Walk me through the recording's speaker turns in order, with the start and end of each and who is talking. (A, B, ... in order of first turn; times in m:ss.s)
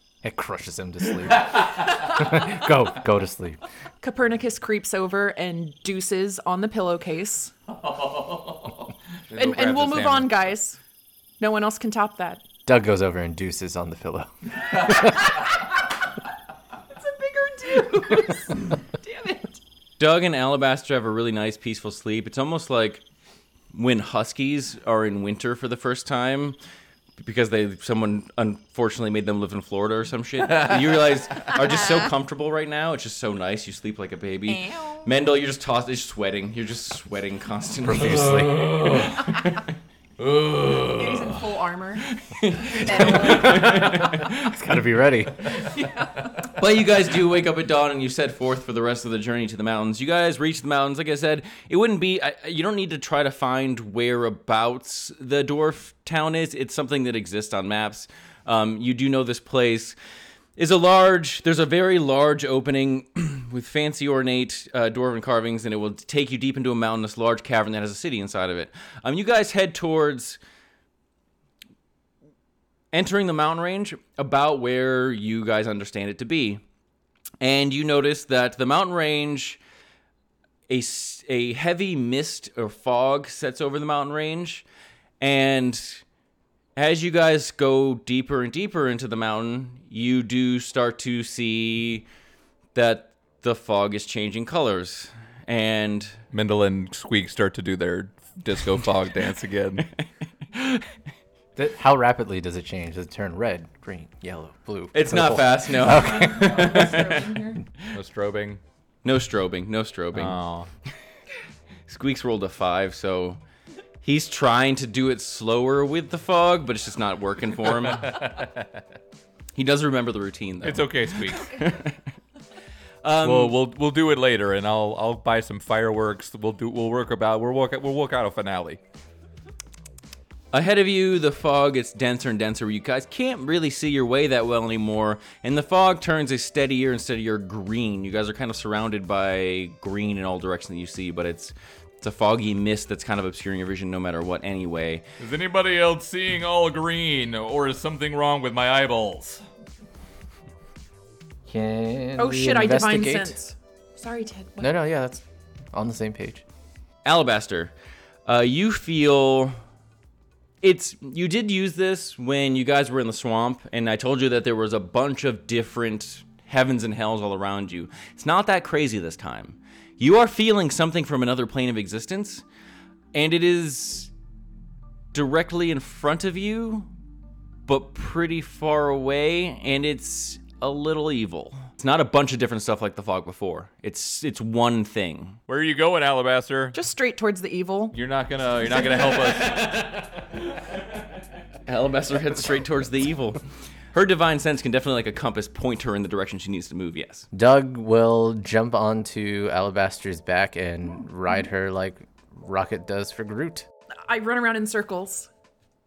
0:00.2-0:03.6 A
0:01.4-0:01.8 B
0:04.0-0:07.5 C
0:07.8-0:10.5 B
0:09.4-0:10.8 C
0:11.4-0:12.4 C
0:12.7-0:15.3 A
0:16.9-0:19.6 C
0:20.0-0:23.0 D
0:23.7-0:26.6 D
0:27.2-0:38.4 D
0:30.5-0:31.2 B
0:34.5-0:35.1 C
0:37.8-0:38.6 A
0:37.9-0:39.4 B
0:39.3-0:39.7 D
0:40.2-0:41.4 B
0:41.0-0:42.1 C
0:42.1-0:44.5 D
0:42.7-0:44.0 C
0:43.2-0:43.6 B
0:44.1-0:45.5 A
0:45.6-0:46.3 C
0:46.4-1:00.0 D
1:00.6-1:10.4 D
1:12.9-1:16.6 D
1:17.4-1:19.6 D
1:20.7-1:24.7 D
1:25.2-1:26.0 D
1:26.8-1:32.0 D
1:32.8-1:36.2 D
1:36.3-1:39.9 B
1:40.5-1:40.9 D
1:41.6-1:46.9 A
1:44.9-1:47.4 D
1:45.9-1:47.6 C
1:47.9-1:48.6 B
1:49.0-1:50.4 D
1:50.1-1:50.7 B
1:51.9-1:53.4 D
1:54.0-1:58.2 D
1:57.9-1:58.7 B
1:59.6-2:02.0 D
2:00.6-2:01.6 B
2:03.0-2:03.6 D
2:03.2-2:08.8 B
2:10.5-2:25.0 D
2:25.2-2:29.4 B
2:31.5-2:33.4 A
2:32.2-2:34.7 C
2:34.6-2:36.4 A
2:37.0-2:37.7 D
2:38.3-2:39.6 D
2:40.6-2:52.4 D
2:53.1-2:54.1 D
2:55.1-2:56.9 D
2:57.7-3:05.4 D
3:05.5-3:06.8 B
3:06.7-3:08.0 C
3:07.9-3:09.7 B
3:09.3-3:10.0 D
3:11.7-3:13.4 D
3:13.9-3:17.3 D
3:17.3-3:23.6 A
3:24.1-3:25.3 C